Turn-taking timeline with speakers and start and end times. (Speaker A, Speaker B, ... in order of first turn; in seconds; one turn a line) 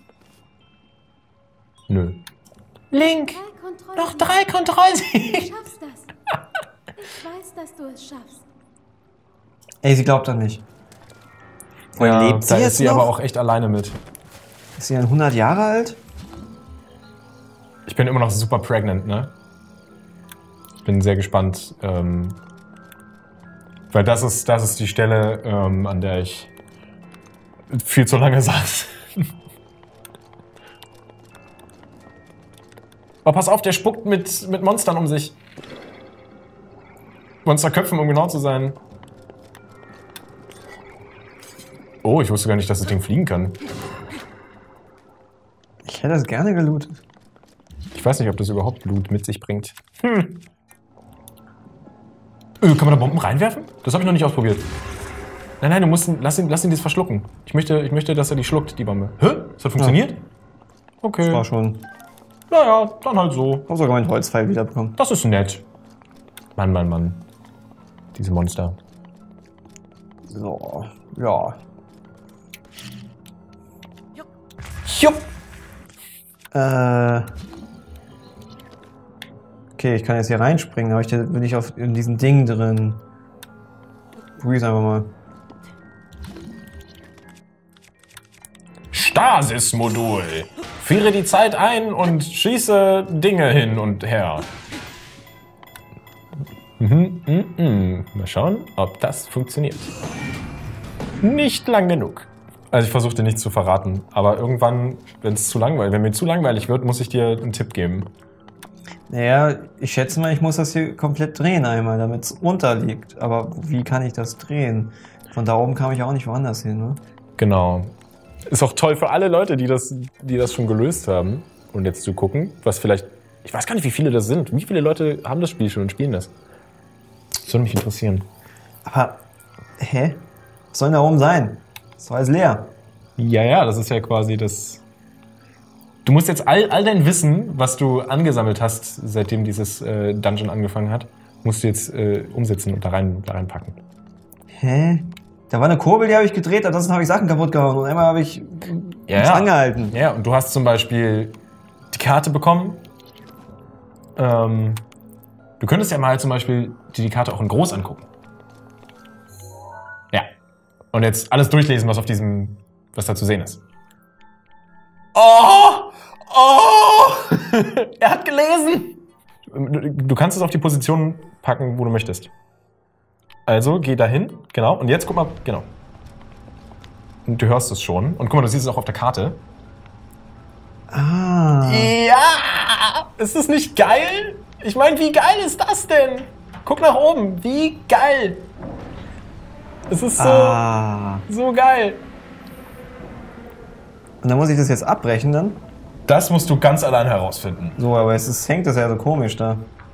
Speaker A: 1.9-2.3
Speaker A: 2.9-3.4
Speaker B: 3.3-4.5
Speaker A: 4.0-5.5
Speaker B: 5.1-6.1
Speaker B: 7.0-8.5
Speaker C: 9.8-10.6
Speaker C: 12.0-13.1
Speaker A: 12.0-14.0
Speaker C: 14.8-16.0
Speaker A: 17.9-19.3
Speaker A: 20.8-22.4
Speaker A: 23.9-26.5
Speaker A: 27.7-29.3
Speaker A: 33.2-35.4
Speaker A: 37.4-38.8
Speaker A: 42.0-43.6
Speaker C: 45.9-47.0
Speaker A: 47.9-50.4
Speaker A: 52.6-54.7
Speaker A: 55.6-60.2
Speaker A: 61.0-61.4
Speaker C: 61.2-61.9
Speaker A: 62.5-63.7
Speaker C: 63.7-65.0
Speaker A: 65.0-65.7
Speaker A: 66.6-67.3
Speaker A: 68.1-68.8
Speaker C: 70.3-71.6
Speaker A: 74.9-75.3
Speaker C: 76.5-77.3
Speaker C: 79.8-83.0
Speaker C: 84.4-85.1
Speaker A: 88.9-94.5
Speaker A: 96.8-99.9
Speaker A: 101.2-108.1
Speaker C: 109.1-117.0
Speaker A: 117.4-117.9
Speaker A: 118.5-126.3
Speaker A: 127.4-128.3
Speaker C: 128.8-129.2
Speaker C: 129.8-132.7
Speaker A: 133.2-134.8
Speaker A: 136.1-143.8
Speaker C: 144.6-149.9
Speaker A: 149.1-151.4
Speaker A: 151.9-152.9
Speaker A: 154.2-154.8
Speaker A: 155.6-158.1
Speaker A: 160.9-163.6
Speaker A: 165.1-172.3
Speaker A: 173.5-175.7
Speaker A: 177.3-179.4
Speaker C: 180.9-181.9
Speaker A: 181.7-188.5
Speaker A: 189.9-190.6
Speaker C: 190.2-191.3
Speaker A: 191.3-192.0
Speaker C: 194.2-195.6
Speaker A: 196.1-197.8
Speaker C: 197.8-199.7